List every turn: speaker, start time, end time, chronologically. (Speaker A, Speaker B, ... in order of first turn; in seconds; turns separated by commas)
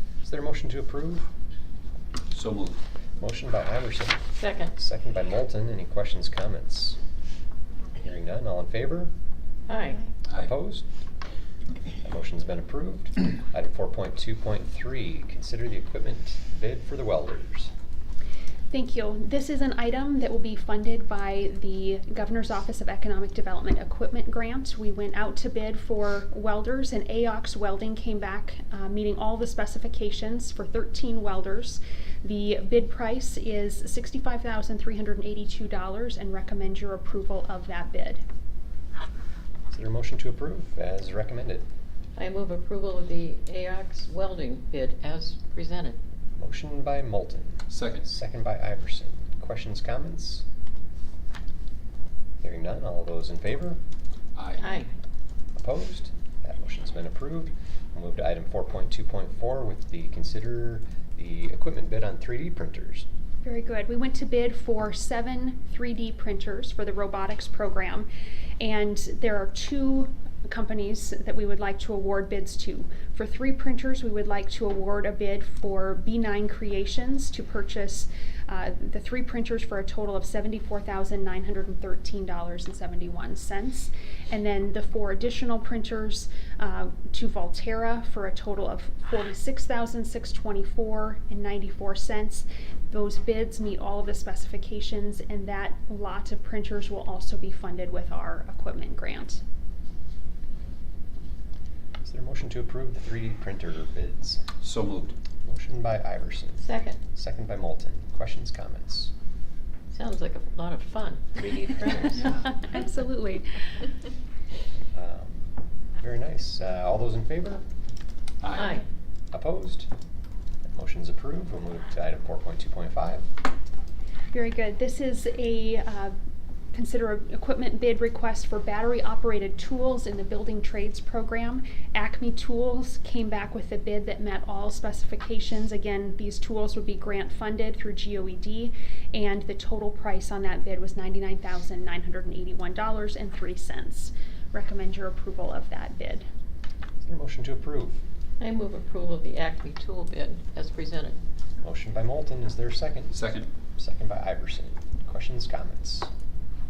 Speaker A: 0.2-1.3, Speaker B: 2.3-2.8, Speaker A: 3.2-7.0, Speaker C: 4.4-4.7, Speaker A: 8.0-9.1, Speaker C: 9.7-10.1, Speaker A: 10.3-10.8, Speaker A: 12.0-17.7, Speaker D: 18.7-38.2, Speaker A: 39.7-41.6, Speaker C: 42.1-46.0, Speaker A: 46.4-50.4, Speaker B: 47.7-48.0, Speaker A: 52.4-53.8, Speaker B: 54.3-54.8, Speaker C: 54.6-54.9, Speaker A: 55.5-63.0, Speaker D: 63.4-68.1, Speaker D: 68.6-99.4, Speaker A: 102.0-104.5, Speaker B: 104.6-105.2, Speaker A: 105.4-109.1, Speaker C: 106.6-107.0, Speaker C: 109.9-112.4, Speaker D: 112.4-113.6, Speaker A: 114.9-115.5, Speaker A: 116.0-117.6, Speaker B: 118.4-118.8, Speaker C: 118.5-118.8, Speaker A: 119.3-119.9, Speaker A: 120.7-123.2, Speaker D: 124.3-126.1, Speaker D: 126.7-146.2, Speaker A: 147.0-148.0, Speaker C: 148.4-151.2, Speaker A: 151.6-153.2, Speaker B: 153.1-153.5, Speaker A: 153.7-156.1